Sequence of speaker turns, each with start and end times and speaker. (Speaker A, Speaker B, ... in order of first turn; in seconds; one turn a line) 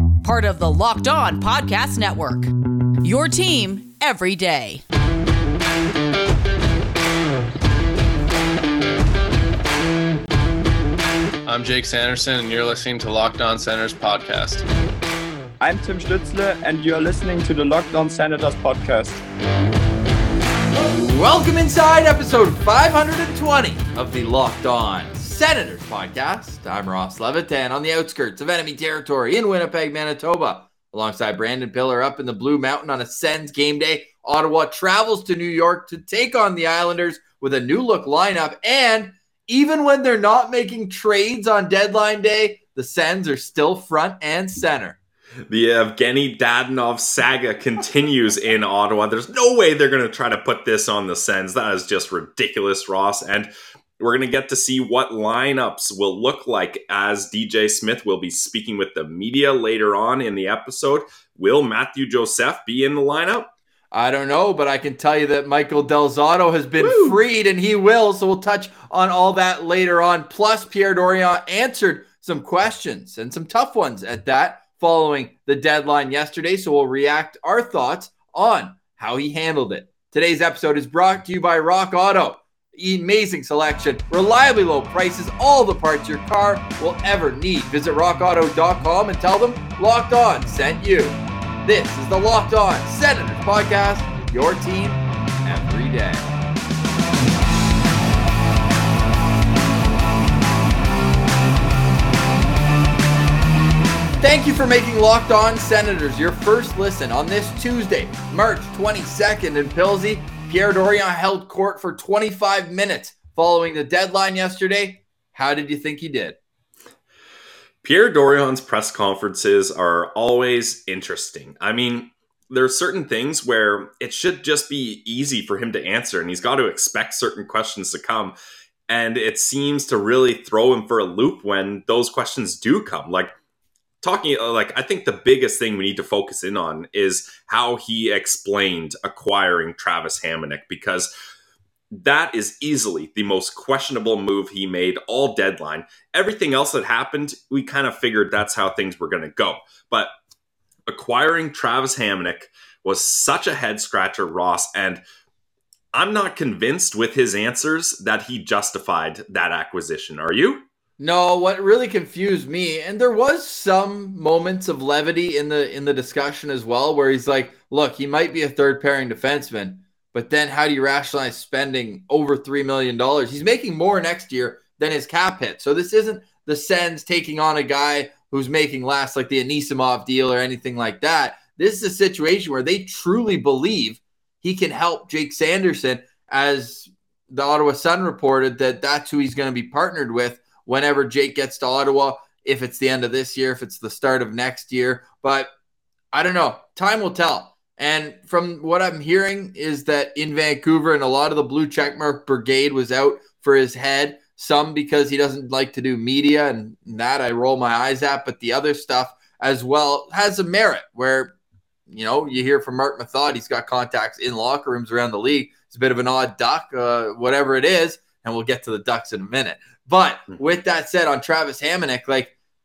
Speaker A: 0.2-2.5
Speaker A: 3.0-4.8
Speaker B: 11.5-14.7
Speaker C: 15.6-19.2
Speaker D: 20.8-45.0
Speaker E: 45.5-63.5
Speaker D: 63.9-96.3
Speaker E: 66.8-67.2
Speaker D: 104.2-116.4
Speaker E: 117.8-128.3
Speaker E: 128.9-133.3
Speaker E: 134.0-141.1
Speaker E: 141.9-150.1
Speaker E: 150.9-155.0
Speaker E: 155.9-160.7
Speaker D: 161.0-195.5
Speaker D: 196.1-211.3
Speaker D: 211.9-222.3